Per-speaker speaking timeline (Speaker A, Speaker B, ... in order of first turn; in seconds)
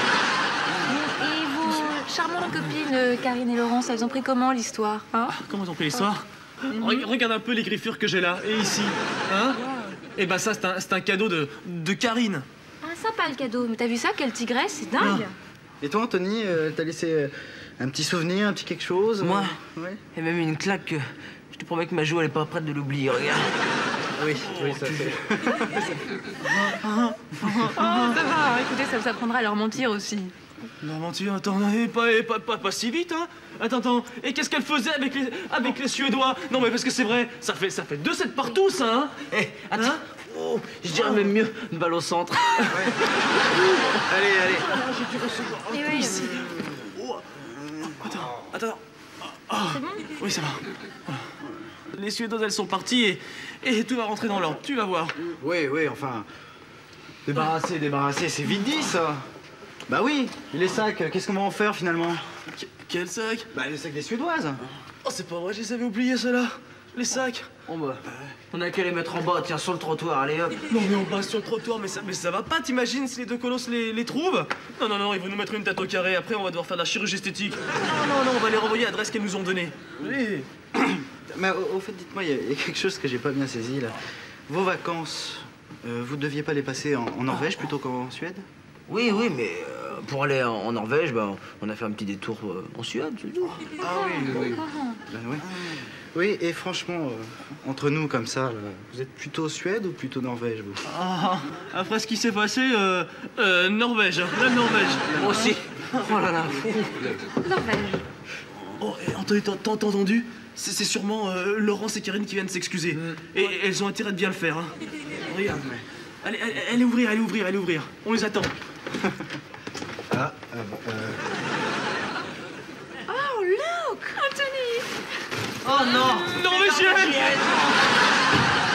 Speaker A: 0.8-5.3, 6.7-7.0, 9.6-10.0, 12.8-15.3, 27.4-30.3, 45.7-46.4, 49.7-50.0, 94.0-95.0, 107.4-108.0, 123.1-124.9
Speaker B: 5.3-9.6, 10.1-12.4, 15.0-15.3, 24.4-25.2, 26.4-28.2, 30.8-39.2, 39.7-40.0, 43.5-47.2, 47.8-51.2, 51.9-55.2, 62.5-63.5, 65.0-67.5, 70.7-80.5, 100.8-106.1, 108.8-114.7, 116.2-118.5, 126.0-127.3
Speaker C: 15.8-19.9, 24.1-25.9, 42.7-43.0, 44.1-44.7, 55.4-56.3, 57.2-59.2, 59.9-62.2, 63.5-64.6, 68.1-68.3, 80.8-88.5, 93.8-95.5, 96.1-100.8, 119.0-119.3, 120.1-121.2
Speaker D: 19.2-23.5, 39.3-42.9, 43.5-44.0, 67.7-70.6, 88.9-93.7, 105.1-107.2, 112.9-113.2, 115.3-115.7, 125.6-127.9